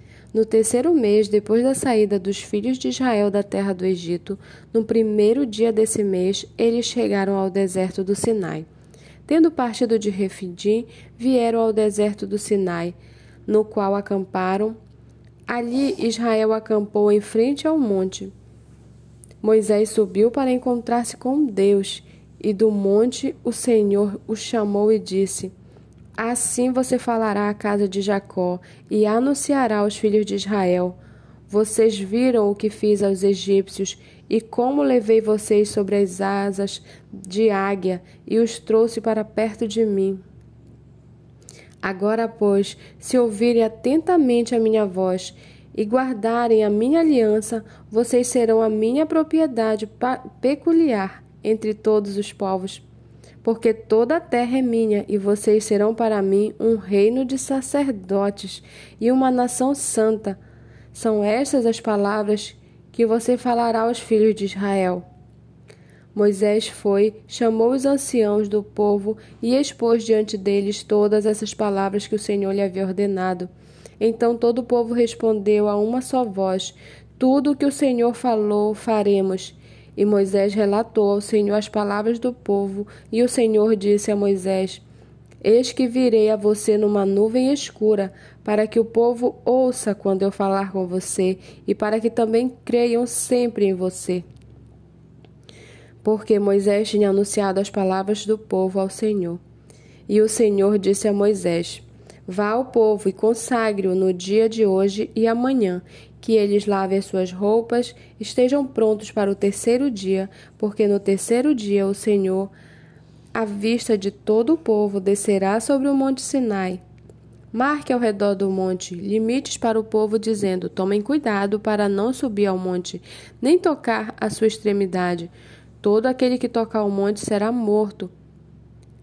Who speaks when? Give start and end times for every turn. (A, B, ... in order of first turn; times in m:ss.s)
0:00.3-0:08.7 A
0:09.3-0:13.0 A
0:13.5-0:14.8 A
0:15.5-0:18.3 A
0:19.4-0:25.5 A
0:26.2-0:31.0 A
0:31.5-0:40.2 A
0:41.8-0:52.8 A
0:53.4-1:00.4 A
1:00.9-1:05.0 A
1:06.2-1:24.8 A
1:25.4-1:34.2 A
1:36.0-1:39.4 A
1:40.1-1:52.5 A
1:53.4-1:56.8 A
1:57.5-2:08.1 A